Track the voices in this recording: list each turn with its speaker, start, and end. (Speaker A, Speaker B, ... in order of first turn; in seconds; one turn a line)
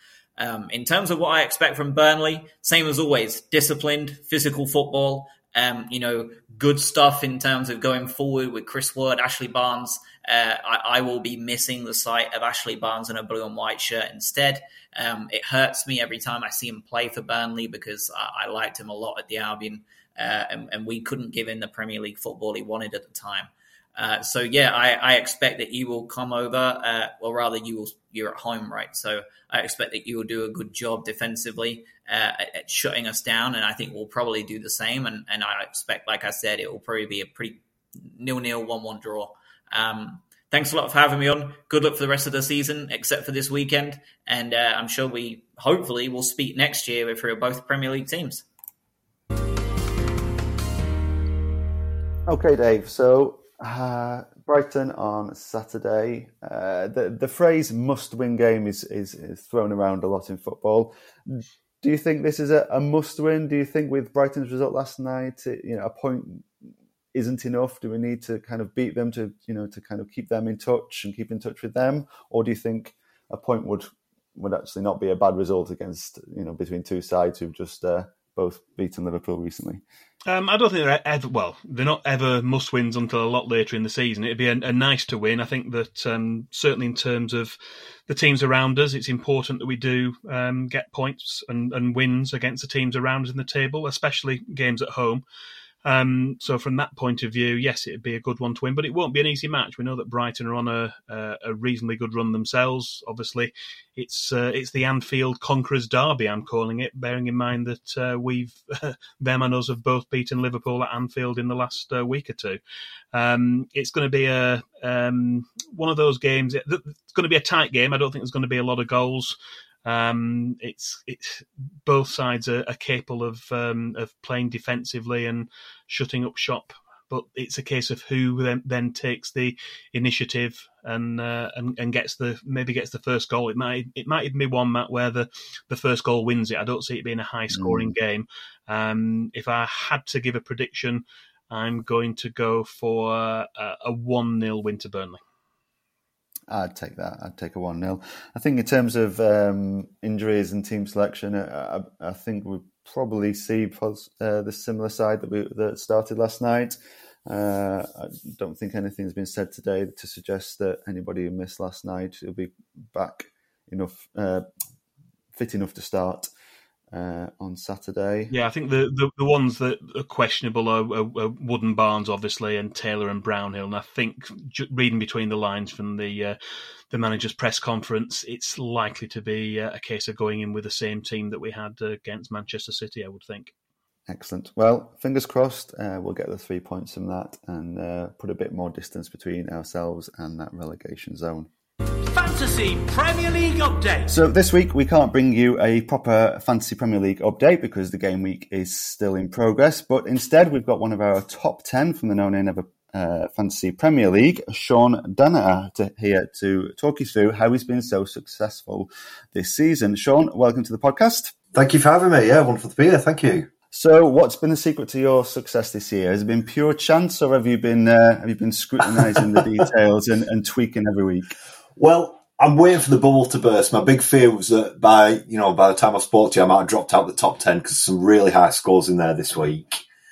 Speaker A: 0.4-48.5
Speaker B: 52.3-66.5
Speaker B: 67.1-79.8
Speaker C: 80.3-87.6
Speaker C: 88.1-95.2
Speaker C: 95.8-112.6
Speaker C: 113.1-145.2
Speaker B: 137.5-137.9
Speaker B: 146.5-164.5
Speaker B: 165.3-166.3
Speaker B: 166.9-168.3
Speaker C: 168.3-176.4
Speaker C: 176.9-183.5
Speaker B: 184.1-191.5
Speaker D: 192.0-194.2
Speaker B: 194.1-211.3
Speaker E: 211.5-213.5
Speaker B: 213.7-221.3
Speaker E: 221.8-229.8